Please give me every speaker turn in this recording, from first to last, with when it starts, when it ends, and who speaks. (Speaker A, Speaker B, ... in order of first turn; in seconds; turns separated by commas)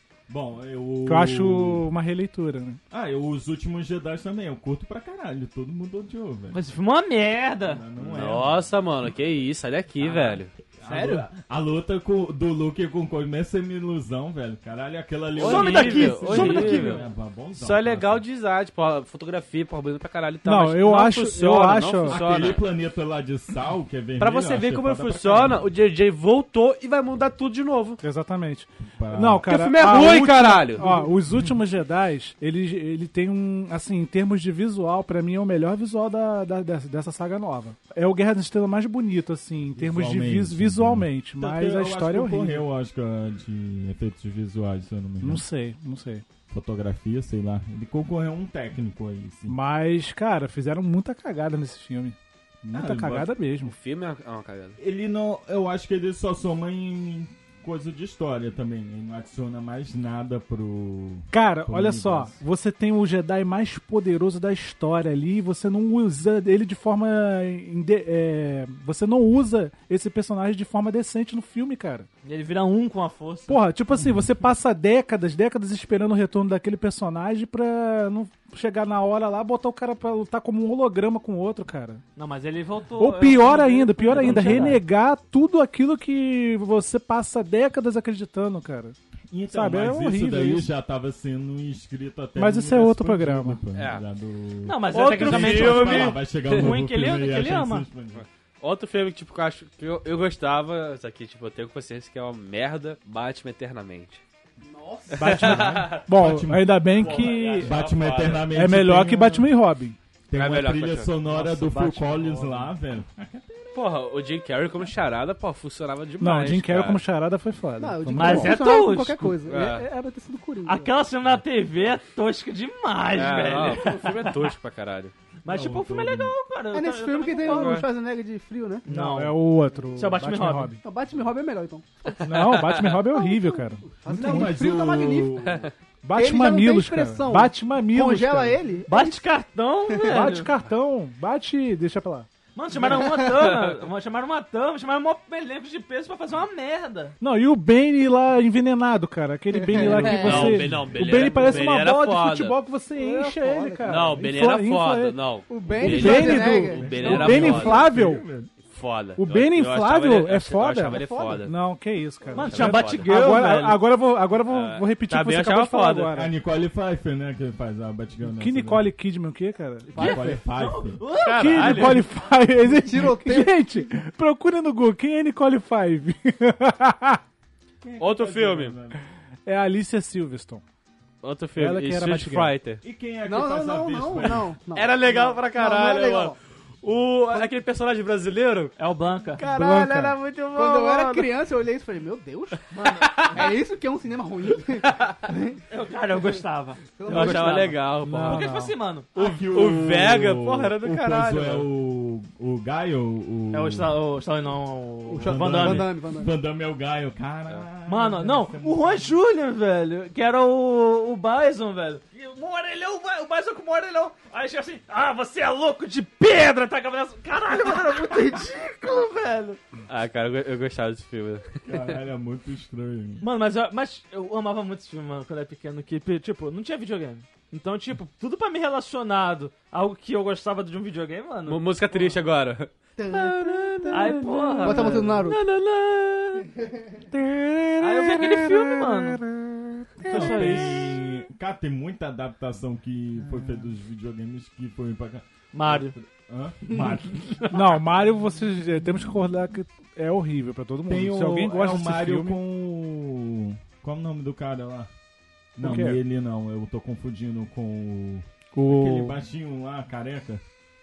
Speaker A: 0.3-1.9, Speaker B: 1.0-2.8, Speaker A: 2.9-6.6, Speaker C: 6.5-7.8, Speaker A: 7.6-8.8, Speaker D: 8.0-10.5, Speaker A: 10.0-18.2, Speaker D: 15.3-22.7, Speaker C: 15.3-17.0, Speaker B: 20.4-22.2, Speaker A: 22.1-25.7, Speaker D: 24.2-28.0, Speaker B: 28.0-42.6, Speaker A: 28.8-29.6, Speaker D: 29.4-31.0, Speaker A: 39.7-45.4, Speaker B: 45.2-46.2, Speaker A: 46.5-49.5, Speaker B: 49.5-53.7, Speaker A: 52.7-53.3, Speaker D: 53.6-54.8, Speaker A: 54.8-62.4, Speaker B: 61.3-72.1, Speaker C: 72.2-73.6, Speaker B: 73.5-82.0, Speaker C: 82.2-84.8, Speaker B: 83.0-89.0, Speaker A: 84.1-84.7, Speaker A: 89.3-98.2, Speaker B: 89.5-90.7, Speaker B: 92.3-93.6, Speaker D: 93.7-94.0, Speaker C: 94.6-97.9, Speaker D: 94.9-96.8, Speaker D: 98.1-104.2, Speaker E: 104.6-105.4, Speaker B: 105.1-107.8, Speaker D: 105.2-106.1, Speaker A: 105.4-109.5, Speaker D: 106.9-108.6, Speaker B: 108.5-110.0, Speaker A: 110.3-114.8, Speaker D: 110.3-112.7, Speaker D: 113.7-117.0, Speaker B: 116.2-118.6, Speaker E: 117.8-120.9, Speaker C: 118.1-119.4, Speaker D: 119.5-119.9, Speaker C: 120.7-124.5, Speaker D: 123.1-125.1, Speaker C: 125.4-127.8, Speaker A: 125.5-126.3, Speaker E: 126.7-128.8, Speaker D: 127.4-127.8, Speaker C: 128.8-129.4, Speaker B: 128.9-130.8, Speaker C: 129.9-130.7, Speaker E: 130.8-132.3, Speaker D: 132.2-133.0, Speaker B: 132.2-134.5, Speaker E: 132.8-139.2, Speaker A: 134.1-135.6, Speaker B: 136.0-138.6, Speaker C: 138.9-140.5, Speaker B: 140.1-142.3, Speaker C: 142.5-147.2, Speaker D: 143.3-143.7, Speaker B: 147.2-155.2, Speaker E: 149.7-150.6, Speaker D: 149.8-152.6, Speaker A: 149.9-151.3, Speaker E: 151.1-151.6, Speaker E: 152.9-154.1, Speaker D: 153.8-157.9, Speaker E: 155.5-157.2, Speaker B: 155.8-158.2, Speaker A: 155.8-158.5, Speaker C: 157.0-157.4, Speaker D: 158.6-161.6, Speaker B: 159.2-166.3, Speaker E: 160.9-161.4, Speaker D: 162.3-163.1, Speaker C: 162.3-163.8, Speaker D: 164.4-166.1, Speaker A: 166.1-168.9, Speaker B: 168.2-169.9, Speaker E: 169.9-170.4, Speaker A: 169.9-171.1, Speaker C: 169.9-172.0, Speaker D: 171.2-172.1, Speaker B: 171.4-177.2, Speaker E: 172.6-173.9, Speaker A: 177.8-179.0, Speaker D: 178.0-178.8, Speaker B: 179.4-180.6, Speaker D: 181.2-182.8, Speaker B: 181.5-182.5, Speaker A: 182.8-184.5, Speaker E: 183.2-186.3, Speaker D: 184.7-188.7, Speaker C: 188.8-189.4, Speaker D: 189.3-191.3, Speaker B: 189.4-190.2, Speaker E: 190.5-195.6, Speaker C: 192.7-193.5, Speaker D: 193.0-193.5, Speaker D: 194.8-195.2, Speaker C: 195.7-199.3, Speaker E: 196.9-197.7, Speaker D: 197.1-198.5, Speaker B: 198.0-198.7, Speaker A: 199.1-203.9, Speaker D: 199.2-201.7, Speaker C: 203.5-205.9, Speaker E: 205.1-206.3, Speaker A: 205.2-209.2, Speaker C: 207.8-219.6, Speaker D: 219.9-222.0, Speaker A: 221.6-223.3, Speaker C: 223.2-232.2, Speaker D: 231.5-236.5, Speaker E: 233.0-235.4, Speaker C: 233.9-235.2, Speaker D: 237.1-240.3, Speaker C: 237.8-239.2, Speaker C: 240.0-241.0, Speaker A: 240.1-247.5, Speaker B: 240.3-240.8, Speaker C: 245.5-245.9, Speaker C: 247.1-247.8, Speaker B: 247.5-252.4, Speaker A: 250.9-254.9, Speaker A: 255.6-260.4, Speaker B: 255.6-256.0, Speaker B: 258.5-259.2